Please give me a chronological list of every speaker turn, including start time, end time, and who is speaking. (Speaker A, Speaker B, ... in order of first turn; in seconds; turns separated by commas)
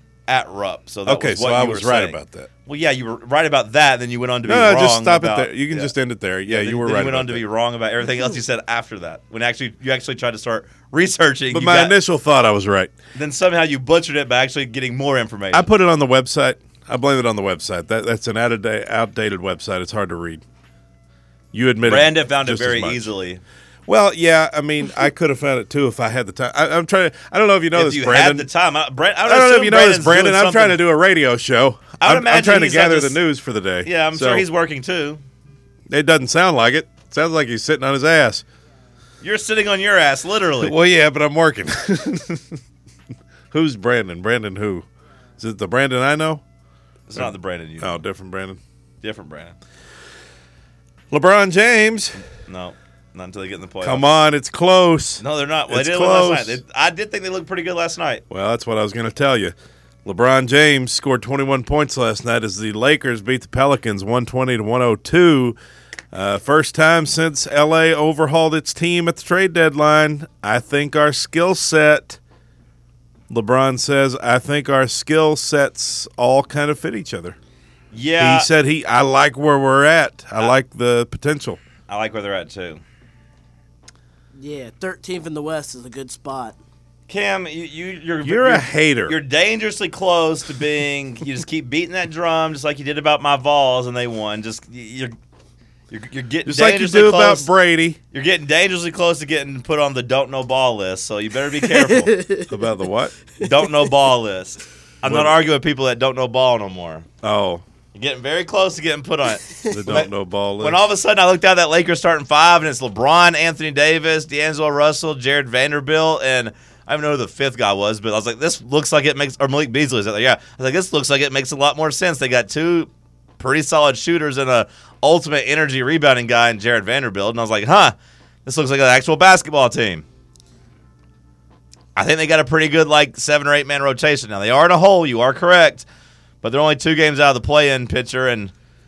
Speaker A: 0.3-5.9, Speaker B: 1.1-2.5, Speaker B: 4.4-7.4, Speaker A: 6.5-11.9, Speaker B: 11.5-12.9, Speaker A: 13.1-15.7, Speaker B: 15.5-20.4, Speaker B: 21.5-23.1, Speaker A: 21.8-23.4, Speaker B: 23.9-28.5, Speaker A: 27.7-30.8, Speaker B: 29.2-34.4, Speaker A: 32.0-33.2, Speaker A: 33.8-35.2, Speaker B: 35.9-38.4, Speaker A: 39.2-40.7, Speaker B: 40.6-42.6, Speaker B: 43.5-44.9, Speaker B: 45.4-46.4, Speaker A: 47.1-48.0, Speaker B: 47.1-48.6, Speaker A: 49.0-49.5, Speaker B: 51.1-52.2, Speaker A: 52.5-54.1, Speaker B: 53.8-56.6, Speaker A: 55.2-58.2, Speaker B: 58.3-65.6, Speaker B: 66.1-72.2, Speaker B: 73.3-77.3, Speaker A: 77.9-78.5, Speaker B: 78.2-81.6, Speaker A: 81.9-82.8, Speaker C: 84.3-86.6, Speaker A: 87.1-95.1, Speaker B: 88.2-89.2, Speaker A: 95.9-97.5, Speaker B: 96.5-98.0, Speaker A: 98.1-102.2, Speaker C: 101.8-102.5, Speaker B: 102.5-103.2, Speaker A: 103.4-107.0, Speaker B: 105.0-105.3, Speaker B: 107.2-107.6, Speaker A: 107.9-127.9, Speaker B: 109.7-110.8, Speaker A: 128.4-130.0, Speaker A: 131.9-135.8, Speaker A: 136.4-138.5